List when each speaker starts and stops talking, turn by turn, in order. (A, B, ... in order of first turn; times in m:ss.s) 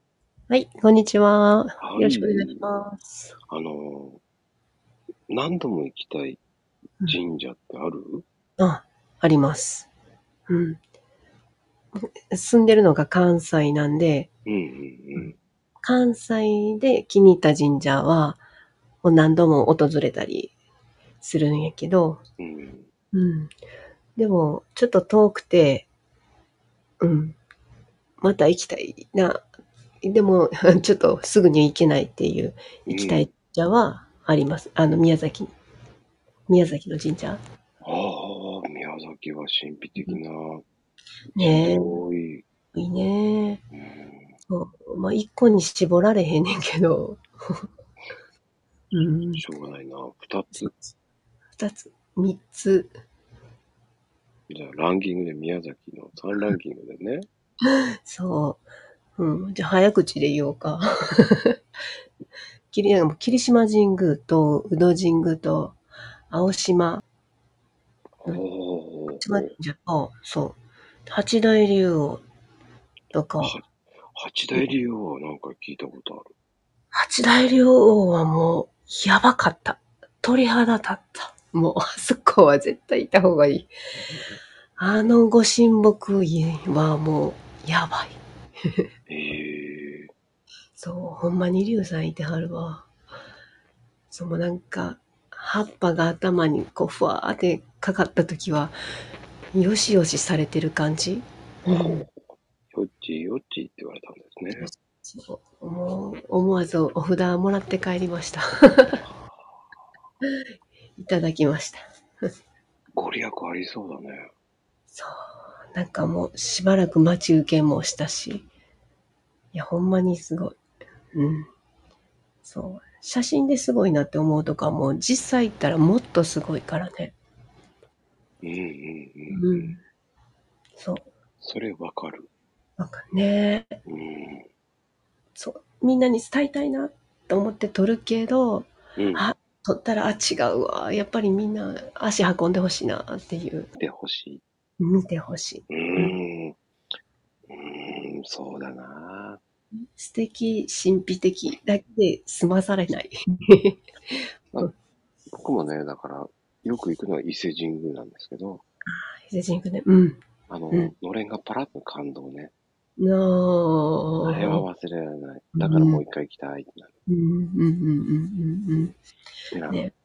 0:00.5-0:03.3 A
0:01.8-0:02.6 B
0:03.5-0:04.2 B
0:05.3-0:06.4 B
0:07.1-0:08.2 B
0:08.6-0:09.9 A
0:10.5-0:10.8 A
0:11.9-0:14.3 A
0:14.4-0:15.3 B
0:15.2-0:18.4 A
0:19.0-0:20.5 A
0:21.2-0:22.2 A
0:22.4-0:22.9 B
0:23.1-0:23.5 A
0:24.2-0:25.9 A
0:27.0-0:27.4 A
0:28.2-0:29.5 A
0:30.0-0:35.5 A
0:32.9-0:33.3 B
0:36.5-0:37.4 A
0:37.8-0:40.6 B
0:41.4-0:42.0 A
0:41.4-0:42.4 B
0:42.7-0:43.6 A
0:43.7-0:44.4 B
0:44.5-0:47.7 A
0:48.9-0:49.4 A
0:49.3-0:50.7 B
0:50.6-0:50.9 A
0:51.6-0:52.9 A
0:54.5-0:57.3 B
0:58.0-0:58.7 A
0:59.2-1:01.6 A
1:02.7-1:07.0 A
1:08.2-1:09.5 B
1:09.1-1:12.2 A
1:13.1-1:13.6 A
1:13.4-1:16.3 B
1:16.9-1:23.7 A
1:24.8-1:28.2 A
1:29.1-1:30.1 B
1:30.8-1:32.9 A
1:34.1-1:38.7 A
1:39.5-1:42.0 A
1:41.7-1:42.2 B
1:42.7-1:44.7 B
1:44.5-1:49.0 A
1:49.1-1:49.4 B
1:51.0-1:51.8 A
1:53.0-1:54.3 B
1:54.9-1:58.5 A
1:59.5-2:00.6 A
2:01.1-2:01.5 A
2:02.4-2:07.1 A
2:08.4-2:09.8 B
2:09.3-2:09.8 A
2:10.8-2:11.1 A
2:11.4-2:12.3 B
2:12.8-2:13.8 A
2:13.8-2:14.4 B
2:15.3-2:23.7 A
2:19.0-2:19.2 B
2:23.8-2:24.4 B
2:24.8-2:26.2 A
2:25.7-2:26.6 B
2:27.5-2:29.4 B
2:30.0-2:34.7 A
2:35.3-2:38.6 B
2:38.9-2:40.9 A
2:40.5-2:42.5 B
2:43.0-2:44.6 A
2:44.2-2:46.9 B
2:45.6-2:46.0 A
2:47.1-2:48.9 A
2:49.5-2:49.8 B